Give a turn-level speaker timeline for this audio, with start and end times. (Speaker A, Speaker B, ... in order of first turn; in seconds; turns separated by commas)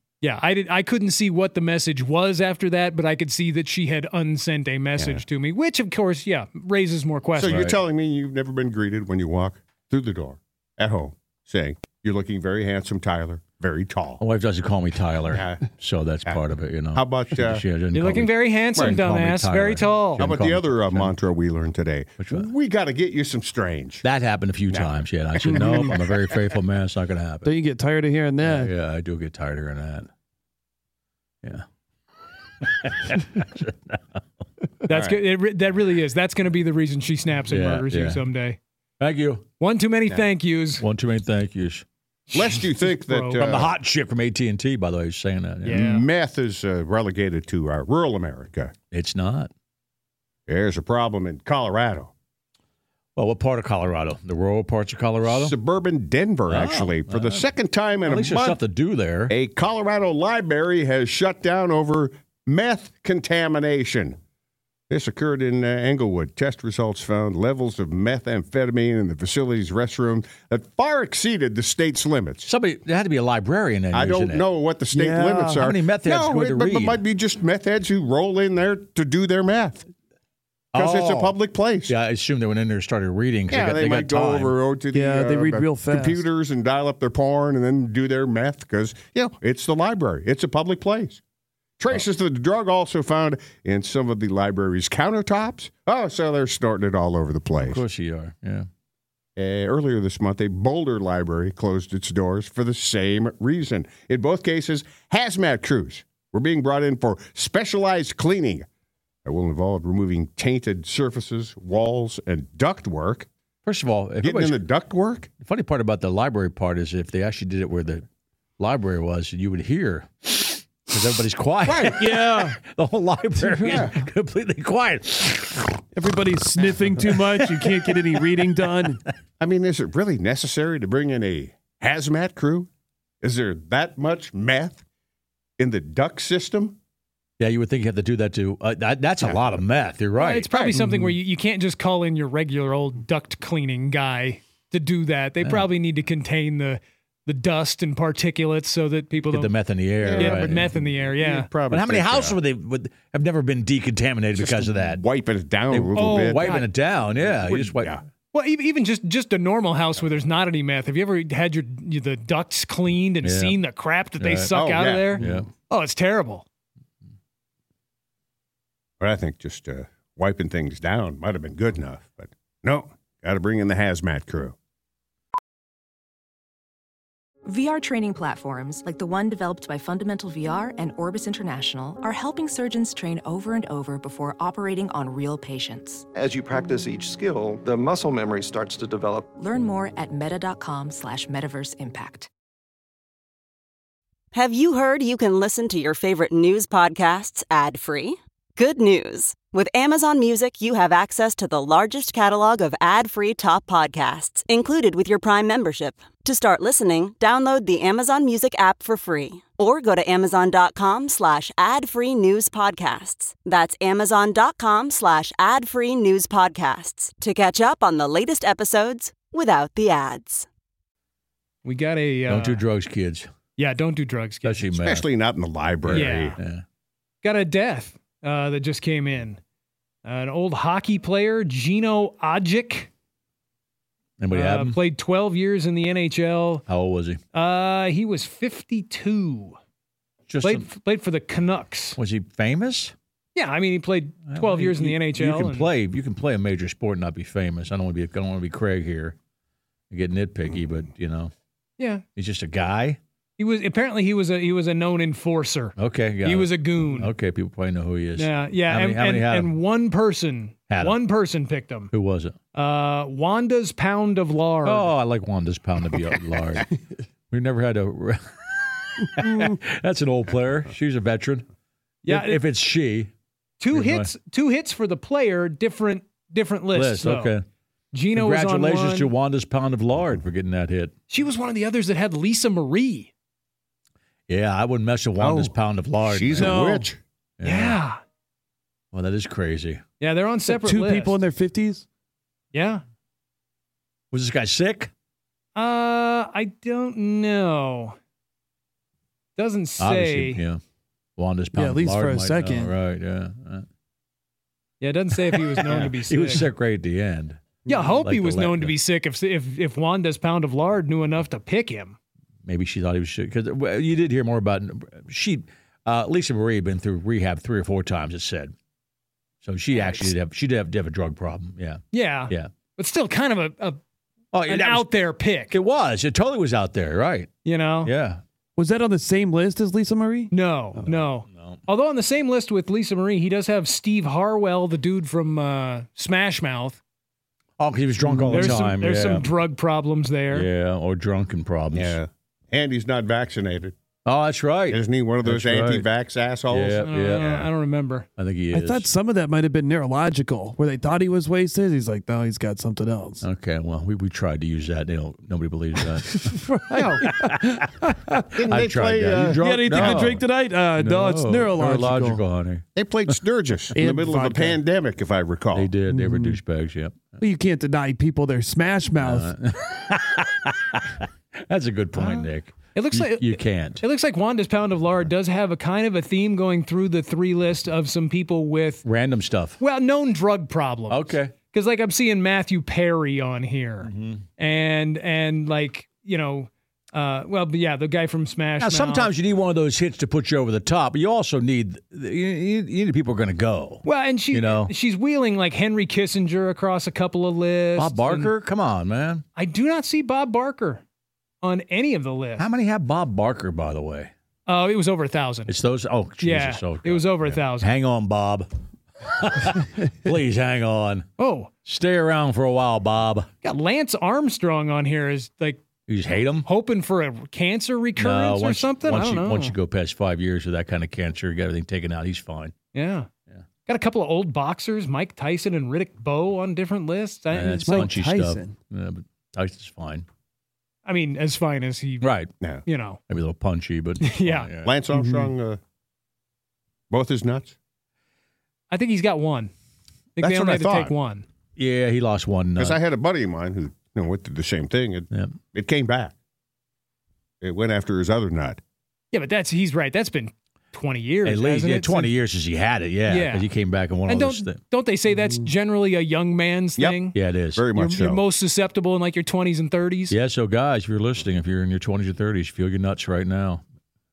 Speaker A: 0.2-7.7, Speaker B: 5.0-5.2, Speaker B: 7.3-14.2, Speaker C: 7.5-7.8, Speaker C: 14.2-21.1, Speaker B: 15.3-15.6, Speaker B: 16.9-17.6, Speaker A: 17.9-20.2, Speaker B: 20.2-24.0, Speaker C: 22.2-22.5, Speaker C: 24.0-27.5, Speaker B: 24.7-26.0, Speaker D: 25.4-26.0, Speaker D: 27.4-28.7, Speaker C: 28.4-30.1, Speaker C: 32.6-34.2, Speaker A: 34.8-38.6, Speaker B: 34.9-35.2, Speaker C: 37.5-38.2, Speaker C: 39.0-39.5, Speaker A: 39.6-40.8, Speaker C: 40.8-41.8, Speaker A: 42.3-43.4, Speaker B: 42.3-43.7, Speaker C: 43.4-45.8, Speaker B: 45.6-48.7, Speaker A: 45.6-46.1, Speaker C: 48.9-49.5, Speaker B: 50.5-52.1, Speaker C: 53.1-55.5, Speaker B: 55.2-58.6, Speaker C: 56.5-57.5, Speaker C: 58.0-59.3, Speaker B: 59.3-64.2, Speaker B: 64.9-72.5, Speaker C: 72.4-74.5, Speaker B: 73.9-79.8, Speaker D: 74.9-75.6, Speaker C: 75.6-77.0, Speaker C: 80.7-84.5, Speaker B: 80.7-81.9, Speaker B: 83.5-91.2, Speaker D: 84.9-86.2, Speaker B: 91.8-97.8, Speaker C: 97.6-98.7, Speaker B: 99.4-108.7, Speaker B: 109.2-113.3, Speaker C: 113.6-114.6, Speaker B: 114.2-115.3, Speaker C: 115.4-118.0, Speaker C: 118.6-125.8, Speaker D: 121.7-122.6, Speaker D: 123.3-123.9, Speaker B: 123.7-124.0, Speaker D: 125.9-129.0, Speaker C: 126.8-128.5, Speaker B: 129.4-132.7, Speaker B: 133.2-134.8, Speaker B: 135.6-136.8, Speaker C: 137.4-140.7, Speaker B: 139.2-139.6, Speaker A: 140.2-149.5, Speaker D: 140.7-141.2, Speaker C: 145.4-145.7, Speaker C: 149.3-150.7, Speaker B: 150.0-152.4, Speaker A: 150.1-151.5, Speaker C: 151.7-155.0, Speaker B: 154.3-156.6, Speaker C: 155.7-158.0, Speaker A: 155.9-156.7, Speaker B: 157.2-158.0, Speaker A: 158.3-166.4, Speaker C: 163.2-163.6, Speaker C: 164.2-164.6, Speaker B: 164.5-165.2, Speaker C: 165.2-165.5, Speaker B: 169.0-174.5, Speaker E: 177.4-186.1, Speaker F: 186.2-189.2, Speaker E: 189.3-192.3, Speaker G: 194.3-220.4, Speaker A: 221.6-222.6, Speaker C: 222.3-223.3, Speaker A: 223.6-224.6, Speaker C: 224.4-225.1, Speaker B: 224.8-226.4, Speaker C: 225.8-226.6, Speaker A: 225.9-226.4, Speaker A: 227.2-229.4, Speaker A: 230.0-232.9, Speaker C: 234.2-234.8, Speaker A: 234.3-236.6, Speaker C: 236.7-237.2, Speaker A: 237.3-239.6, Speaker C: 240.3-240.7, Speaker A: 240.4-242.0, Speaker C: 241.9-242.9, Speaker A: 243.3-245.7, Speaker C: 244.3-249.2, Speaker C: 249.9-251.3, Speaker A: 251.8-252.0, Speaker C: 252.2-253.0, Speaker A: 253.4-257.1, Speaker C: 255.8-259.5, Speaker A: 258.2-261.9, Speaker C: 260.7-261.0, Speaker C: 261.9-262.3, Speaker A: 262.5-264.9, Speaker C: 264.6-266.7, Speaker C: 267.3-271.4, Speaker A: 272.0-272.4, Speaker C: 272.1-273.1, Speaker A: 273.6-277.4, Speaker C: 273.7-274.1, Speaker C: 276.7-277.4, Speaker A: 277.9-279.1, Speaker C: 278.1-280.9, Speaker A: 281.1-283.1, Speaker C: 284.3-286.6, Speaker B: 285.2-285.5, Speaker B: 286.0-287.0, Speaker D: 286.4-286.9, Speaker C: 287.4-287.8, Speaker A: 287.4-288.0, Speaker C: 288.9-289.8, Speaker A: 290.0-291.2, Speaker D: 290.5-291.8, Speaker A: 292.5-292.8, Speaker C: 294.1-294.9, Speaker A: 295.5-297.9, Speaker A: 299.4-300.4, Speaker C: 299.8-300.6, Speaker C: 301.2-303.6, Speaker D: 301.5-302.7, Speaker A: 304.8-306.5, Speaker C: 305.6-307.4, Speaker A: 307.7-311.9, Speaker C: 307.9-308.7, Speaker C: 312.4-318.5, Speaker C: 319.4-322.5, Speaker A: 319.7-320.1, Speaker A: 321.9-323.8, Speaker C: 324.3-324.9, Speaker A: 324.4-325.6, Speaker C: 325.5-327.3, Speaker A: 327.4-327.9, Speaker C: 327.8-328.2, Speaker D: 328.6-330.3, Speaker A: 330.3-336.8, Speaker C: 331.0-331.6, Speaker C: 337.6-339.2, Speaker D: 338.0-338.7, Speaker A: 338.3-340.5, Speaker C: 340.3-341.9, Speaker B: 341.7-343.7, Speaker C: 344.0-345.9, Speaker B: 344.7-347.4, Speaker C: 346.5-347.4, Speaker A: 346.8-348.1, Speaker C: 348.2-348.9, Speaker D: 348.5-353.2, Speaker C: 353.2-357.8, Speaker D: 355.8-358.4, Speaker B: 356.7-357.1, Speaker B: 358.3-359.8, Speaker C: 358.5-360.2, Speaker D: 359.4-362.2, Speaker C: 360.8-362.6, Speaker B: 362.8-365.7, Speaker D: 363.7-364.6, Speaker C: 365.5-367.1, Speaker D: 365.8-366.4, Speaker D: 367.2-369.3, Speaker C: 369.0-373.8, Speaker A: 372.7-378.8, Speaker C: 378.8-379.6, Speaker A: 379.6-389.1, Speaker C: 380.9-381.3, Speaker C: 383.8-384.2, Speaker C: 388.6-394.7, Speaker A: 393.8-398.3, Speaker C: 397.8-399.2, Speaker A: 399.4-400.8, Speaker A: 401.4-402.4, Speaker C: 402.4-404.1, Speaker A: 404.4-405.5, Speaker C: 405.5-408.5, Speaker A: 406.2-407.7, Speaker C: 409.0-411.1, Speaker A: 411.2-411.5, Speaker C: 411.6-413.3, Speaker A: 413.4-415.6, Speaker C: 415.9-416.5, Speaker A: 416.4-419.5, Speaker C: 418.0-422.5, Speaker A: 422.7-423.1, Speaker A: 423.7-427.9, Speaker C: 427.3-430.0, Speaker D: 427.4-428.5, Speaker A: 430.8-432.1, Speaker C: 432.0-432.3, Speaker A: 432.6-433.0, Speaker C: 433.1-434.8, Speaker A: 434.0-434.5, Speaker B: 434.6-435.6, Speaker D: 434.9-435.3, Speaker B: 436.9-437.5, Speaker A: 438.7-439.5, Speaker A: 440.1-441.2, Speaker B: 440.2-440.9, Speaker C: 441.6-442.8, Speaker B: 442.6-446.1, Speaker B: 447.4-448.6, Speaker A: 449.1-452.1, Speaker C: 451.2-454.6, Speaker A: 453.1-453.5, Speaker A: 454.1-457.1, Speaker C: 457.1-457.6, Speaker B: 457.5-458.2, Speaker A: 457.7-460.1, Speaker C: 460.1-463.6